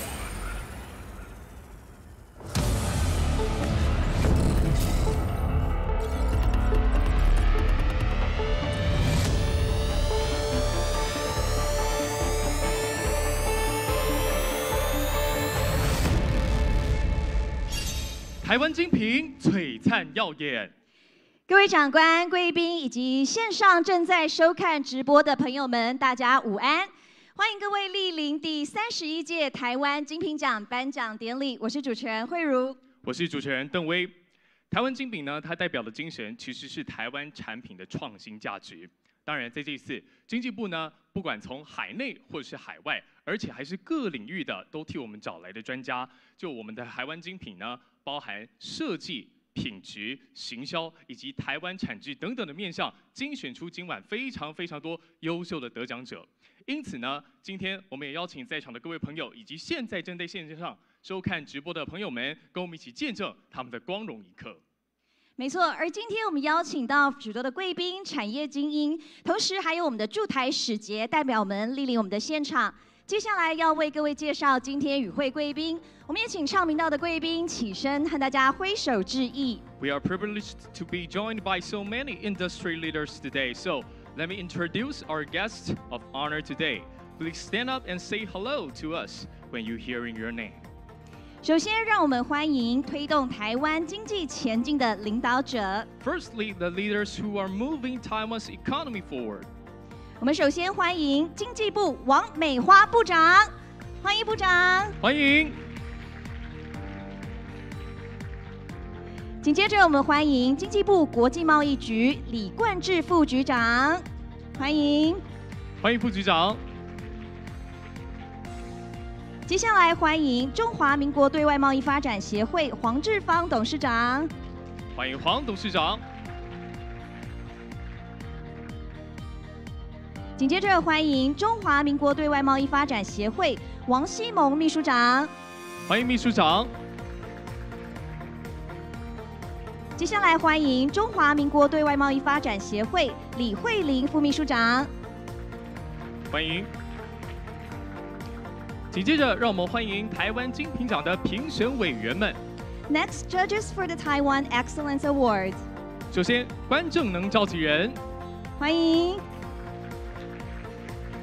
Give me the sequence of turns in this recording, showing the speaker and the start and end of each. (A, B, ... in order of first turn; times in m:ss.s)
0:18.4-0:20.7 A
0:21.5-0:32.8 B
0:33.0-0:34.1 A
0:34.7-1:04.6 A
1:05.4-1:19.6 B
1:19.8-1:30.6 A
1:31.4-1:35.9 B
1:36.0-1:39.5 A
1:40.2-1:43.5 B
1:44.0-1:45.0 B
1:45.0-1:45.6 A
1:49.4-1:54.0 B
1:54.6-1:55.2 B
1:55.8-1:56.6 A
1:59.5-2:04.3 B
2:05.0-2:06.0 A
2:10.4-2:15.3 B
2:15.9-2:16.7 A
2:20.0-2:24.9 B
2:26.3-2:26.7 A
2:28.9-2:32.4 A
2:32.9-2:35.6 B
2:36.1-2:38.0 A
2:38.6-2:39.2 B